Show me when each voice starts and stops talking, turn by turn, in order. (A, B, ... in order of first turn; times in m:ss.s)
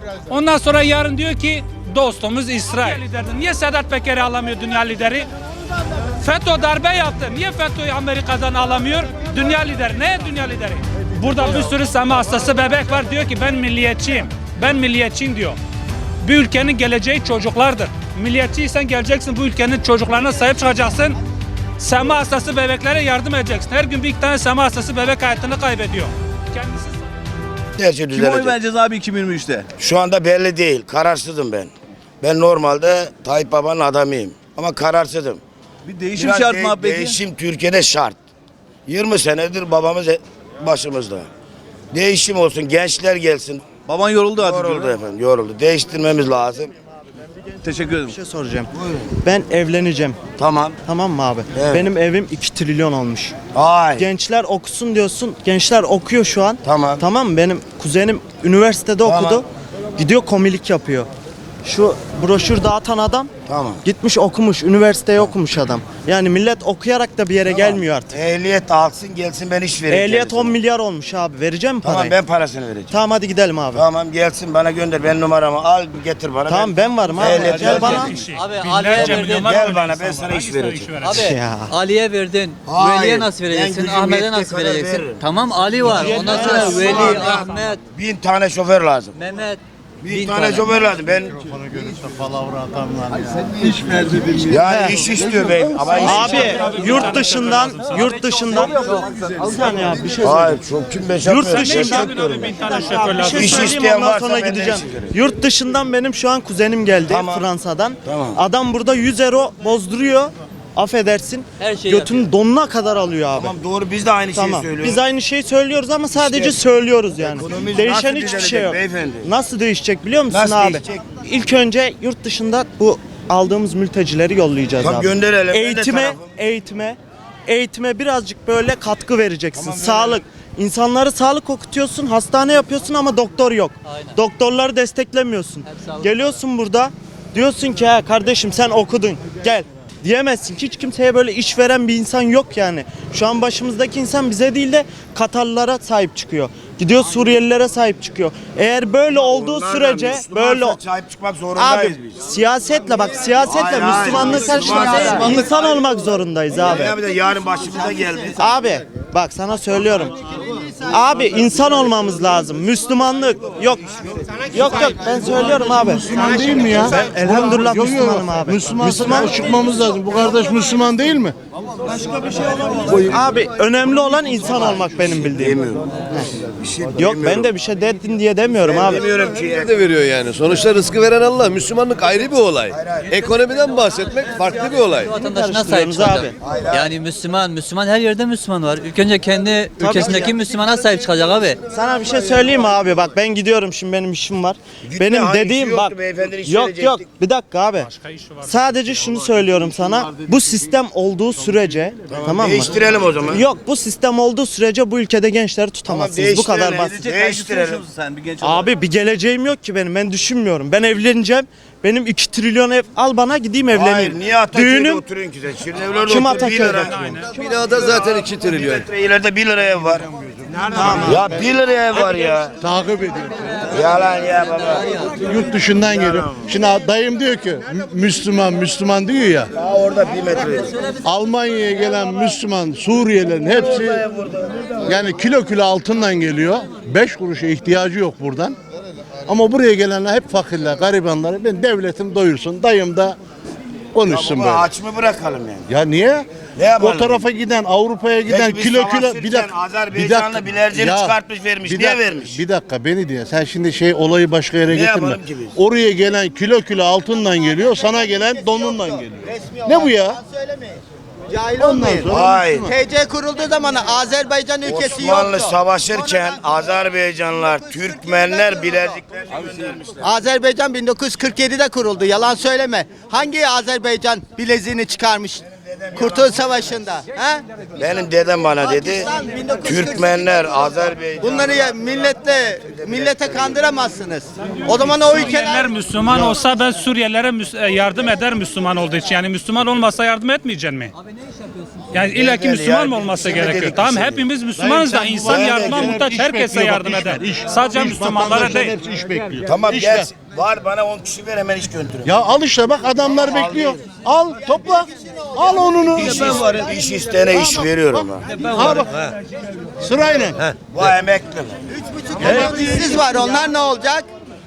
0:00.3-0:05.3 A
0:06.2-0:15.6 A
0:16.2-0:21.2 A
0:21.8-0:27.1 A
0:27.8-0:28.6 B
0:28.1-0:29.7 C
0:29.8-0:35.4 B
0:35.8-0:37.2 C
0:36.2-0:38.2 B
0:38.9-0:41.3 B
0:41.9-0:43.7 B
0:43.8-0:45.0 C
0:44.4-0:46.7 B
0:47.6-0:48.2 C
0:48.1-0:50.2 D
0:50.4-0:50.8 B
0:50.8-0:53.4 D
0:51.5-0:51.9 B
0:53.5-0:54.1 B
0:54.0-0:59.5 D
0:56.6-0:57.0 B
0:59.0-0:59.4 B
1:00.0-1:01.1 D
1:01.6-1:03.3 D
1:03.5-1:03.8 B
1:03.8-1:08.2 D
1:07.5-1:10.6 B
1:09.9-1:12.2 D
1:11.8-1:13.0 B
1:12.9-1:13.8 D
1:13.7-1:18.1 B
1:16.4-1:18.2 D
1:17.1-1:17.4 E
1:17.5-1:21.3 A
1:18.3-1:19.5 E
1:19.0-1:20.9 B
1:21.0-1:27.8 E
1:21.3-1:21.7 D
1:22.7-1:29.2 B
1:25.8-1:26.7 D
1:26.8-1:27.6 A
1:29.2-1:30.7 E
1:30.0-1:31.5 B
1:31.5-1:35.6 F
1:34.5-1:36.6 B
1:36.0-1:40.6 D
1:36.1-1:38.7 A
1:40.2-1:42.6 B
1:41.2-1:53.5 D
1:41.6-1:43.7 A
1:43.3-1:45.1 B
1:47.1-1:47.5 B
1:48.1-1:48.4 B
1:51.6-1:52.2 E
1:53.3-1:55.0 B
1:54.3-2:30.8 D
1:56.1-1:56.6 B
1:57.3-1:59.3 B
2:00.3-2:01.1 B
2:04.8-2:06.3 B
2:09.6-2:10.2 B
2:29.1-2:32.2 B
2:31.5-2:37.0 D
2:33.4-2:35.8 B
2:36.5-2:38.5 B
2:38.4-2:40.2 D
2:40.8-2:43.9 D
2:44.5-2:46.2 D
2:46.1-2:51.4 F
2:46.8-2:49.3 D
2:51.9-2:52.8 B
2:52.7-2:56.3 D
2:54.5-2:57.5 B
2:57.0-2:59.1 D
2:58.6-2:59.9 B
2:59.7-3:05.1 G
3:02.7-3:03.3 B
3:05.1-3:06.4 D
3:05.1-3:11.6 E
3:06.4-3:07.0 B
3:09.8-3:10.4 D
3:11.7-3:17.9 D
3:14.8-3:17.1 B
3:17.8-3:19.0 A
3:18.4-3:22.8 D
3:22.1-3:23.4 B
3:23.3-3:27.0 D
3:25.9-3:27.8 B
3:27.0-3:28.7 C
3:28.4-3:35.0 D
3:33.7-3:36.9 B
3:36.1-3:37.1 D
3:36.4-3:37.3 A
3:37.4-3:38.8 G
3:37.5-3:42.5 B
3:42.6-3:43.6 F
3:43.7-3:45.2 B
3:45.1-3:49.5 F
3:45.9-3:46.5 B
3:49.6-3:50.7 B
3:51.0-3:54.0 F
3:53.4-3:54.9 B
3:54.9-3:58.6 F
3:59.3-4:03.2 F
4:04.0-4:04.7 F
4:04.1-4:05.7 B
4:05.7-4:20.2 F
4:06.6-4:07.3 B
4:08.2-4:12.4 B
4:14.7-4:15.6 B
4:21.3-4:26.0 H
4:21.6-4:22.7 F
4:22.1-4:22.7 B
4:24.6-4:30.1 B
4:30.0-4:37.4 H
4:35.5-4:36.5 B
4:37.8-4:39.1 B
4:38.6-4:46.4 H
4:39.6-4:41.8 B
4:42.6-4:43.7 B
4:45.0-4:50.9 A
4:51.9-4:58.8 A
4:52.0-4:54.3 B
4:54.6-5:00.1 F
4:55.3-4:56.8 B
4:59.4-5:02.3 B
5:02.0-5:06.6 F
5:03.0-5:04.0 B
5:05.9-5:08.3 B
5:07.3-5:09.1 F
5:09.8-5:10.4 F
5:10.7-5:11.6 B
5:11.9-5:14.1 H
5:12.2-5:13.0 F